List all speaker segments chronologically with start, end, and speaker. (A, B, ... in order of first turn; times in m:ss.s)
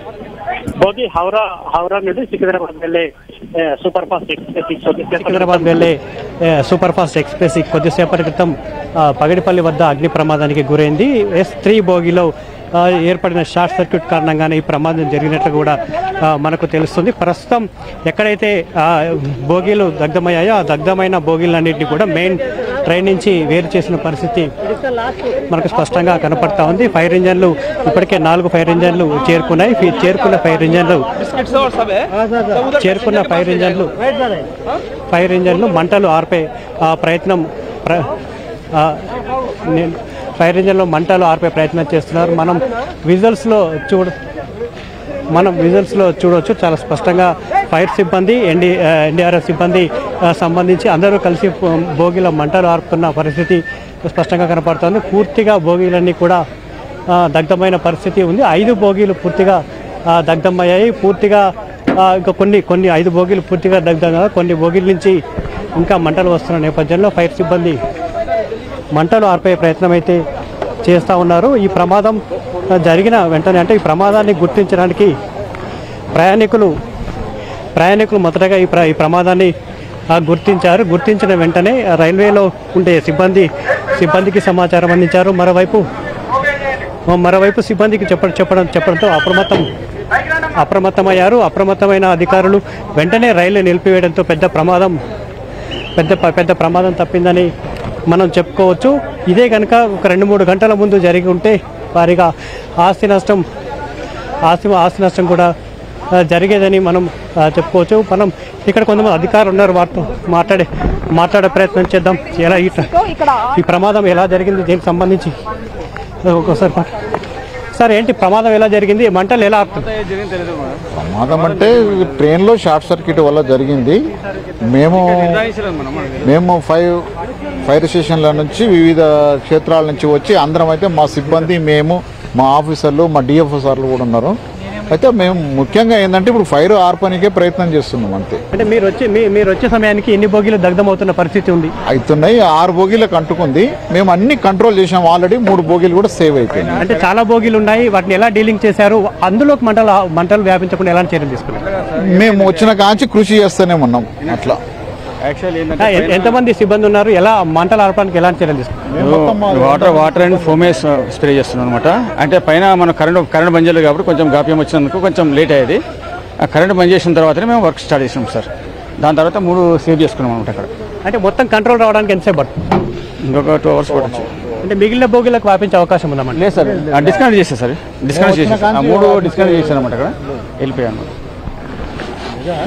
0:00.8-0:05.7 A
0:05.1-0:24.5 B
0:25.5-0:31.2 B
0:32.7-0:33.9 B
0:35.1-0:38.1 B
0:38.7-0:39.1 B
0:39.6-0:44.1 B
0:45.3-0:56.4 B
0:57.1-0:59.6 B
1:00.1-1:01.4 B
1:02.0-1:05.1 B
1:05.8-1:07.8 B
1:08.9-1:10.2 B
1:10.8-1:12.2 B
1:12.8-1:15.1 B
1:16.1-1:16.7 B
1:17.8-1:19.5 B
1:20.1-1:25.8 B
1:27.1-1:29.7 B
1:30.6-1:35.0 B
1:36.0-1:37.5 B
1:38.1-1:42.3 B
1:42.8-1:43.4 B
1:44.5-1:45.5 B
1:46.2-1:55.3 B
1:56.2-1:56.9 B
1:57.7-1:59.9 B
2:00.1-2:00.8 C
2:00.9-2:04.0 D
2:04.6-2:05.4 D
2:05.0-2:06.3 C
2:06.2-2:07.0 D
2:07.6-2:14.4 D
2:14.9-2:18.4 D
2:18.5-2:21.7 B
2:21.9-2:26.8 D
2:26.5-2:27.1 C
2:26.8-2:31.6 B
2:31.7-2:32.7 C
2:32.0-2:34.6 D
2:35.2-2:36.4 C
2:35.8-2:38.7 B
2:38.9-2:40.8 D
2:39.0-2:45.8 C
2:46.4-2:48.5 C
2:49.0-2:50.7 C
2:51.0-2:52.5 B
2:53.2-2:54.3 C
2:53.8-2:54.7 D
2:54.6-2:56.4 B
2:56.4-3:01.1 C
2:58.1-2:59.7 D